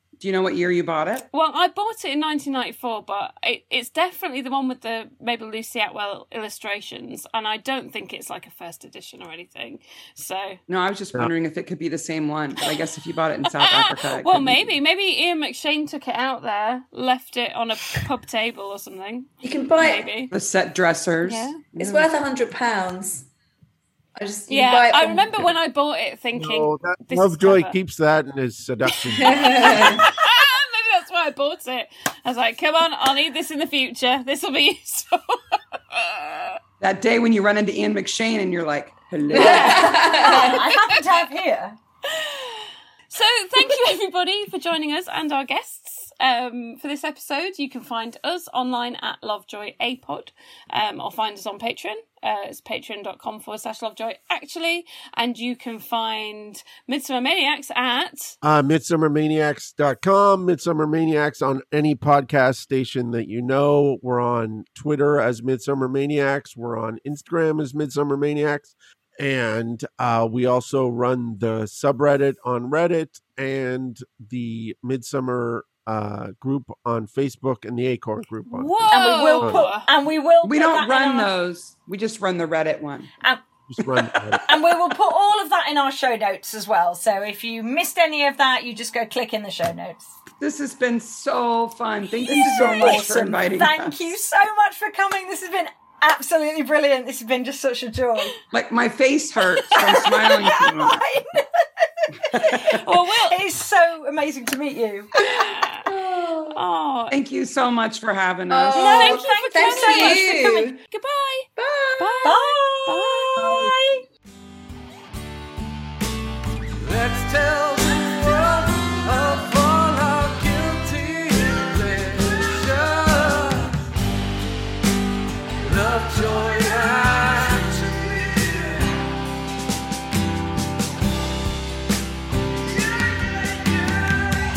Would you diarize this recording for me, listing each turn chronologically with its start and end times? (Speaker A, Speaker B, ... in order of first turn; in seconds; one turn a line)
Speaker A: 0.2-1.3
Speaker B: 1.3-10.6
Speaker A: 10.7-14.8
Speaker B: 13.6-20.3
Speaker C: 19.4-20.1
Speaker A: 20.3-22.1
Speaker B: 21.2-21.6
Speaker C: 21.8-23.3
Speaker C: 24.2-25.4
Speaker B: 24.5-27.8
Speaker D: 26.4-29.9
Speaker C: 29.2-30.1
Speaker B: 29.7-36.6
Speaker A: 36.8-40.0
Speaker C: 39.3-40.7
Speaker B: 39.3-41.1
Speaker E: 39.5-41.8
Speaker B: 42.1-58.4
Speaker D: 58.4-79.7
Speaker B: 78.5-79.9
Speaker E: 78.9-81.3
Speaker A: 80.4-83.1
Speaker D: 83.7-84.5
Speaker A: 83.8-84.1
Speaker E: 84.5-90.1
Speaker A: 90.4-94.1
Speaker E: 92.3-98.3
Speaker A: 98.5-101.0
Speaker E: 99.7-105.1
Speaker A: 102.3-102.8
Speaker B: 102.5-103.4
Speaker B: 105.2-105.9
Speaker C: 105.2-106.6
Speaker B: 106.5-107.2
Speaker A: 107.1-109.2
Speaker C: 108.5-110.8
Speaker E: 108.8-110.7
Speaker B: 108.8-113.4
Speaker C: 111.6-112.3
Speaker E: 112.2-114.0
Speaker D: 113.4-113.7
Speaker F: 116.8-123.8
Speaker F: 125.6-129.0